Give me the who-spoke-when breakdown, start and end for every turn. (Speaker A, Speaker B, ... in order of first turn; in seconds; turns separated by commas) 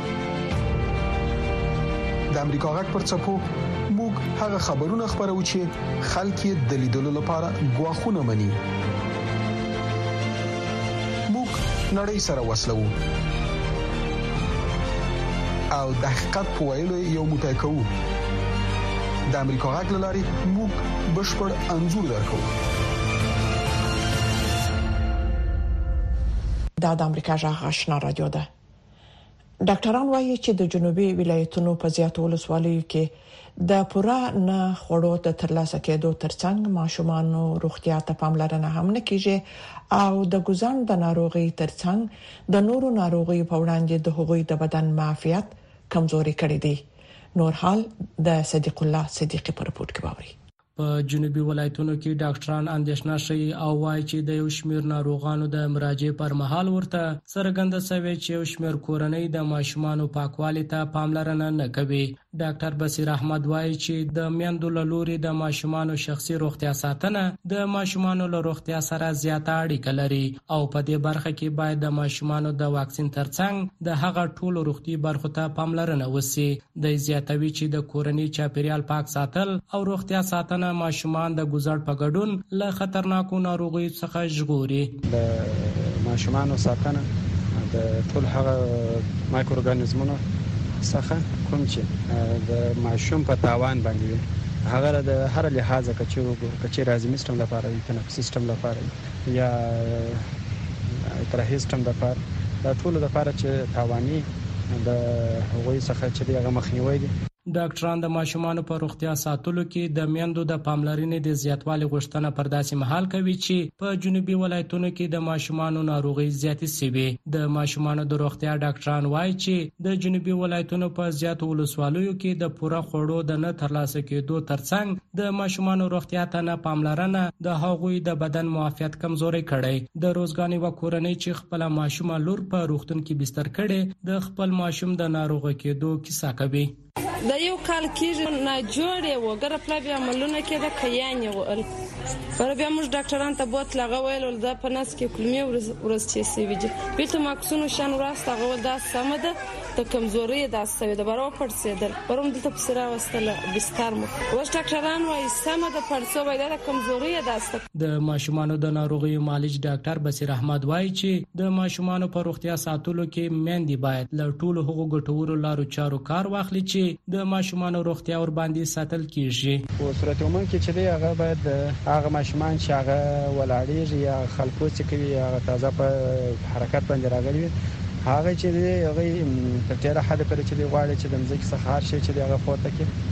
Speaker A: 2.3-8.6, Speaker A: 11.3-12.9, Speaker A: 15.7-17.9, Speaker A: 19.3-22.5, Speaker B: 26.8-28.5, Speaker B: 29.6-46.8, Speaker B: 47.3-50.3, Speaker C: 50.8-85.0, Speaker D: 85.0-90.2, Speaker D: 90.8-100.2, Speaker D: 101.0-107.1, Speaker C: 107.5-136.8, Speaker E: 137.2-141.7, Speaker E: 142.4-157.6, Speaker C: 157.7-169.6, Speaker D: 169.8-177.5, Speaker D: 178.0-182.9